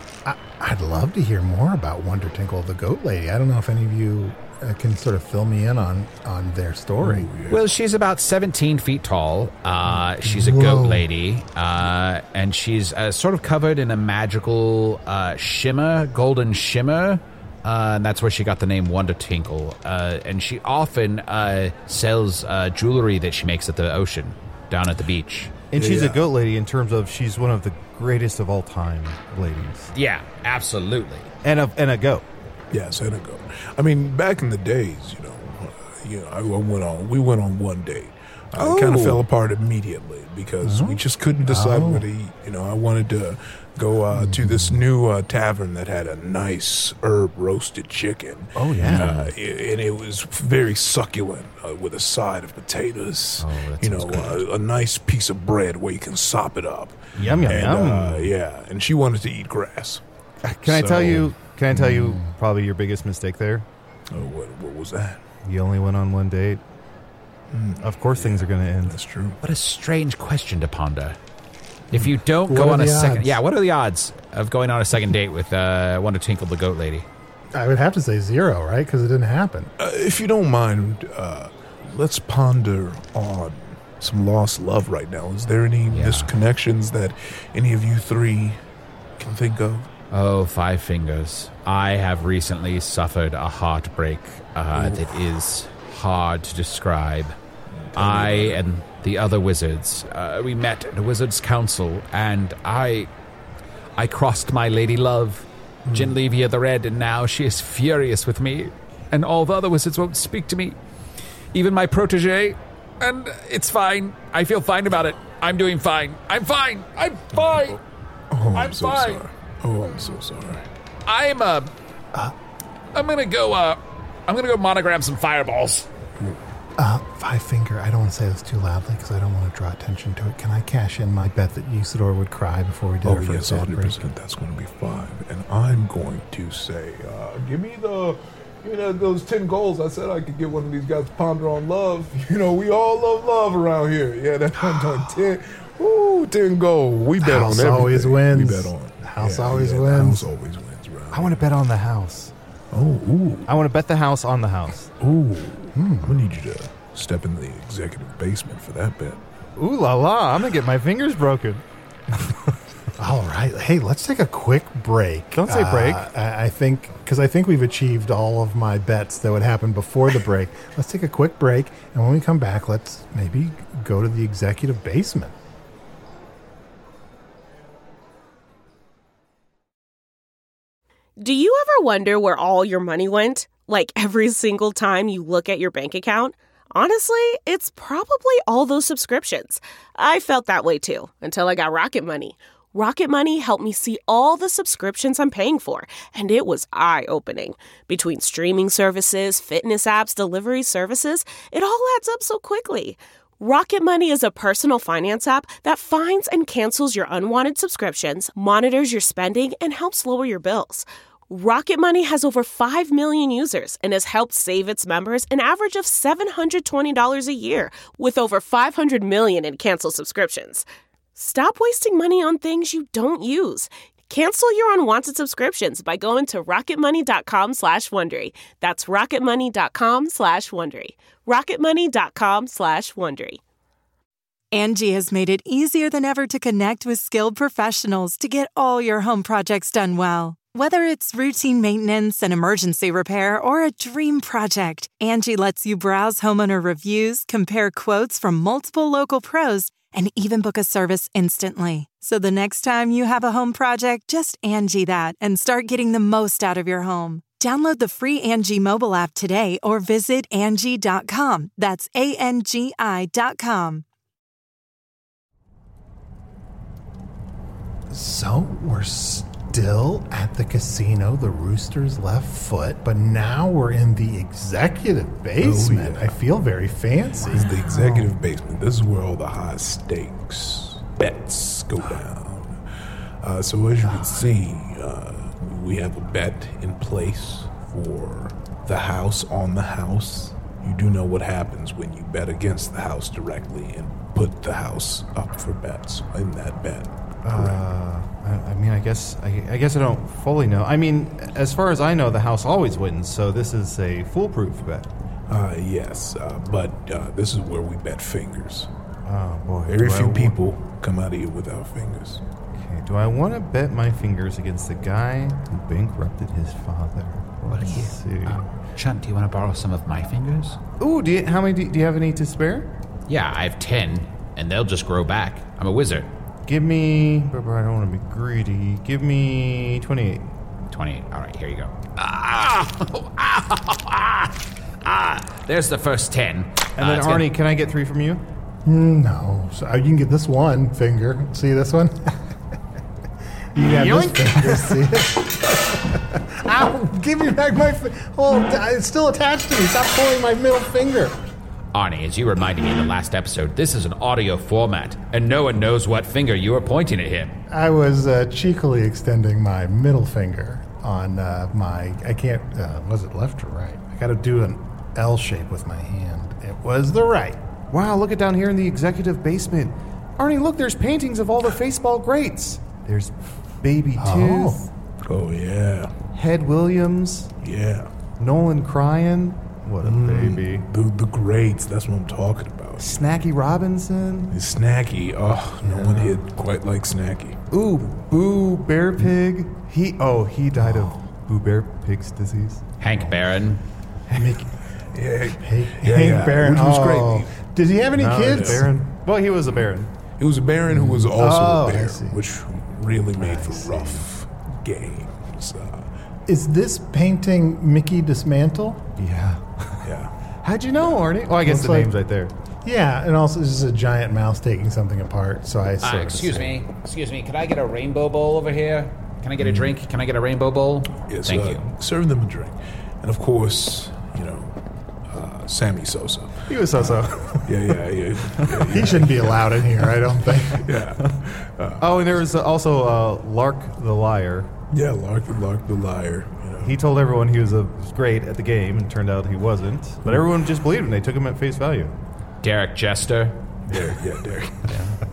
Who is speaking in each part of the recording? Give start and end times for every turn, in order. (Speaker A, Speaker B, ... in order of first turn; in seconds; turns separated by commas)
Speaker A: 0.2-7.3, Speaker B: 7.0-7.6, Speaker C: 7.5-25.5, Speaker A: 10.2-11.1, Speaker D: 25.7-29.9, Speaker B: 25.7-26.2, Speaker C: 29.9-31.3, Speaker D: 31.4-32.2, Speaker B: 32.7-60.0, Speaker C: 38.6-39.2, Speaker A: 41.5-42.0, Speaker D: 48.5-49.1, Speaker C: 48.8-49.3, Speaker C: 53.4-54.4, Speaker C: 57.1-57.6, Speaker D: 57.2-58.3, Speaker D: 60.4-63.6, Speaker B: 60.6-61.3, Speaker B: 61.9-62.1, Speaker B: 64.1-65.2, Speaker D: 65.4-66.6, Speaker B: 67.5-69.4, Speaker D: 67.8-69.0, Speaker C: 69.4-71.2, Speaker C: 71.9-77.0, Speaker A: 72.5-73.4, Speaker A: 77.5-79.7, Speaker B: 79.8-88.6, Speaker C: 85.9-86.3, Speaker B: 89.2-89.9, Speaker C: 90.1-97.3, Speaker B: 94.7-95.0, Speaker B: 97.9-98.6, Speaker C: 98.0-103.1, Speaker C: 104.0-110.8, Speaker B: 105.8-106.1, Speaker C: 111.5-117.8, Speaker B: 118.3-120.7, Speaker C: 118.5-119.2, Speaker C: 121.1-121.7, Speaker C: 122.9-125.9, Speaker A: 126.8-134.0, Speaker B: 133.0-151.4, Speaker A: 144.6-144.9, Speaker A: 147.2-150.3, Speaker D: 151.1-152.3, Speaker B: 152.7-153.5, Speaker D: 153.5-154.9, Speaker B: 155.0-159.2, Speaker A: 155.7-156.2, Speaker D: 159.6-162.3, Speaker A: 163.0-175.3, Speaker D: 165.3-166.1, Speaker E: 181.2-233.4, Speaker F: 234.5-263.8, Speaker A: 267.9-278.1, Speaker B: 275.4-276.2, Speaker B: 277.2-282.6, Speaker B: 283.2-297.6, Speaker A: 283.8-284.1, Speaker D: 297.2-304.9, Speaker B: 305.3-308.7, Speaker D: 309.1-310.4, Speaker B: 309.7-312.2, Speaker D: 312.5-318.4, Speaker C: 317.5-320.6, Speaker D: 320.8-322.7, Speaker C: 323.1-326.1, Speaker D: 326.4-330.3, Speaker C: 330.7-337.3, Speaker D: 336.8-338.2, Speaker A: 338.6-342.2, Speaker A: 343.5-351.2, Speaker D: 343.6-344.9, Speaker C: 351.7-357.4, Speaker A: 357.5-367.4, Speaker D: 367.7-374.7, Speaker A: 374.0-374.6, Speaker B: 375.0-375.9, Speaker D: 376.1-377.3, Speaker B: 377.4-377.9, Speaker D: 378.2-380.6, Speaker B: 379.8-383.0, Speaker D: 382.8-384.4, Speaker B: 384.3-387.4, Speaker A: 385.6-386.1, Speaker D: 387.5-392.6, Speaker C: 392.8-393.6, Speaker D: 394.1-394.5, Speaker A: 394.1-394.5, Speaker B: 394.9-397.3, Speaker A: 395.4-398.7, Speaker D: 397.9-399.9, Speaker B: 398.3-398.6, Speaker B: 400.2-405.9, Speaker A: 400.7-402.2, Speaker D: 401.2-401.8, Speaker A: 403.2-404.0, Speaker A: 406.3-408.9, Speaker D: 409.0-409.8, Speaker B: 409.8-410.1, Speaker D: 410.4-412.3, Speaker A: 411.4-411.9, Speaker A: 412.6-416.6, Speaker C: 415.8-421.7, Speaker B: 419.4-419.7, Speaker B: 421.0-424.5, Speaker B: 425.1-426.5, Speaker D: 426.5-427.8, Speaker B: 427.4-429.6, Speaker D: 428.3-429.1, Speaker A: 428.7-430.8, Speaker B: 430.5-432.2, Speaker D: 430.9-431.2, Speaker D: 431.8-434.5, Speaker B: 434.7-436.8, Speaker D: 436.6-441.9, Speaker C: 442.4-443.4, Speaker B: 443.7-444.8, Speaker D: 444.7-445.0